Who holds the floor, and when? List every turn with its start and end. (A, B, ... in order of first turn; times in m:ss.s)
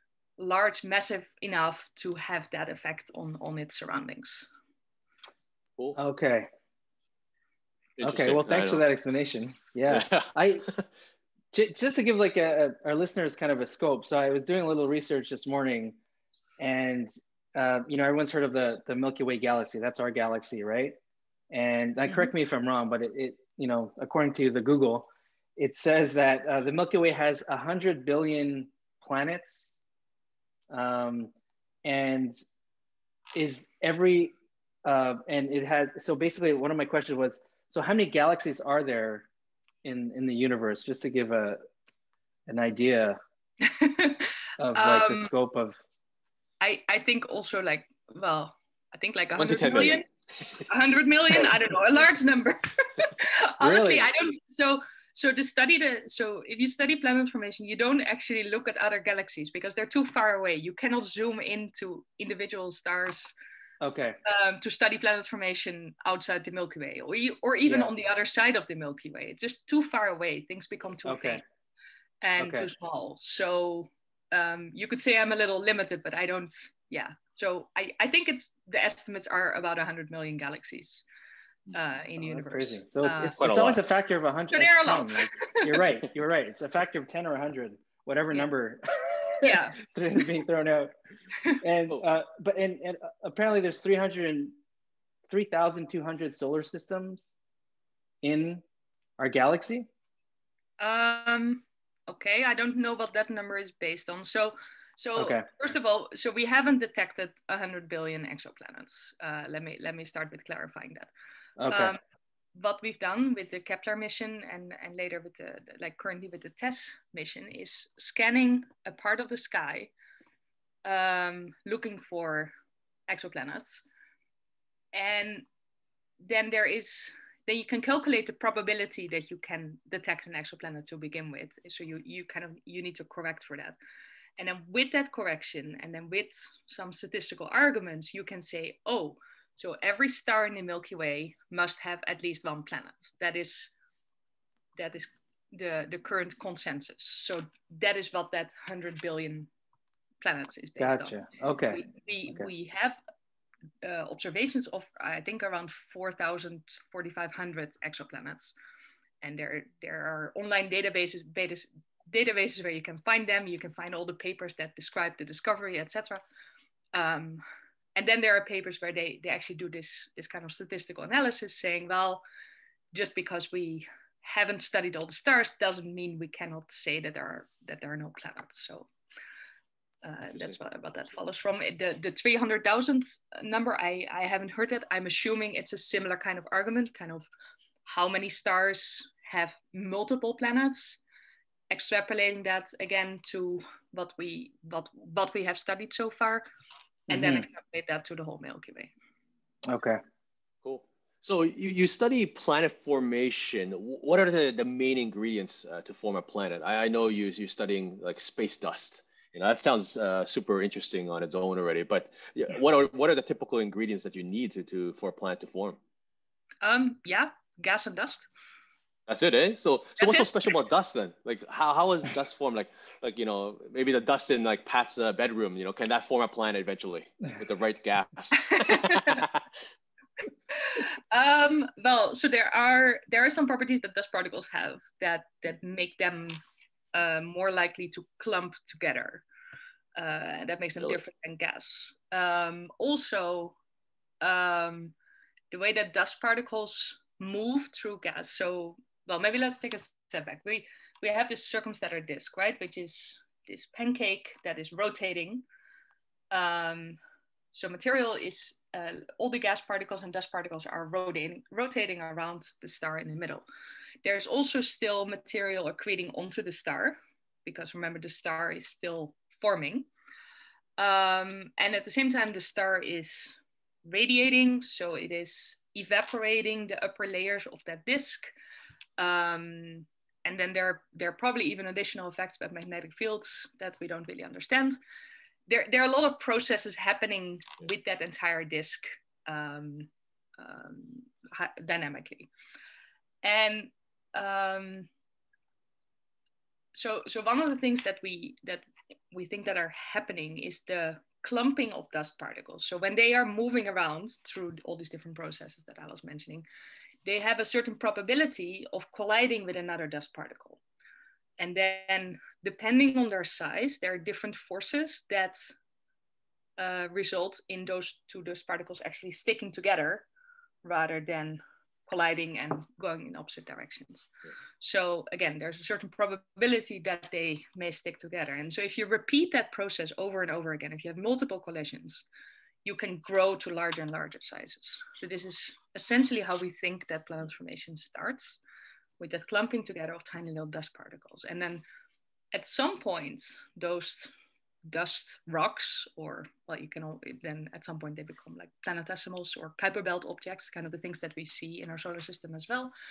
0:00.4-0:04.5 A
0:05.9-0:06.5 B
0:08.0-0:08.8 C
0:08.0-0:10.7 B
0:09.9-0:10.8 C
0:11.5-0:16.0 B
0:16.6-0:21.0 B
0:21.5-0:29.7 B
0:22.0-0:22.3 A
0:30.7-0:31.3 B
0:31.8-0:32.4 B
0:33.3-0:34.3 B
0:34.8-0:39.3 B
0:39.8-0:41.6 B
0:42.5-0:43.2 B
0:43.6-0:45.3 A
0:44.6-0:45.8 B
0:46.6-0:50.0 A
0:49.4-0:50.0 C
0:50.7-1:03.3 A
0:53.6-0:54.1 B
1:03.8-1:04.2 B
1:04.2-1:11.4 A
1:07.6-1:07.9 B
1:11.0-1:11.4 B
1:12.2-1:21.0 A
1:12.4-1:12.7 B
1:21.7-1:23.4 A
1:22.2-1:30.9 B
1:23.4-1:23.8 C
1:24.5-1:25.8 A
1:29.4-1:29.8 A
1:31.6-1:34.6 B
1:35.3-1:37.3 B
1:38.2-1:38.6 B
1:39.2-1:39.9 B
1:40.8-1:51.1 A
1:45.2-1:45.4 B
1:51.6-1:51.9 B
1:51.7-1:52.0 A
1:52.5-1:59.9 A
2:00.8-2:02.5 A
2:03.1-2:03.8 A
2:04.9-2:05.4 A
2:06.2-2:13.8 A
2:14.4-2:23.7 A
2:24.8-2:29.5 A
2:30.2-2:31.2 A
2:30.8-2:32.5 B
2:31.7-2:33.0 A
2:33.8-2:38.5 A
2:39.2-2:46.2 A
2:46.9-2:47.4 A
2:48.0-2:52.2 A
2:52.9-2:58.9 A
3:00.0-3:07.3 A
3:07.8-3:11.0 A
3:11.7-3:16.4 A
3:17.1-3:17.5 B
3:17.1-3:18.9 A
3:19.6-3:20.0 B
3:20.6-3:35.8 C
3:36.6-3:38.3 A
3:39.1-3:49.4 C
3:40.0-3:40.5 A
3:48.4-3:49.2 A
3:50.5-3:56.4 A
3:56.9-3:59.2 A
4:00.0-4:03.6 A
4:04.2-4:04.9 A
4:05.5-4:15.4 A
4:16.3-4:17.0 A
4:17.5-4:23.4 A
4:24.0-4:29.9 A
4:30.8-4:38.3 A
4:39.0-4:44.8 A
4:45.5-4:52.3 A
4:53.2-4:54.9 A
4:56.7-5:06.4 A
5:07.0-5:10.6 A
5:11.4-5:15.5 A
5:16.6-5:20.1 A
5:20.6-5:32.0 A
5:32.6-5:38.4 A
5:39.0-5:41.6 A
5:42.3-5:44.1 A
5:44.6-5:52.7 A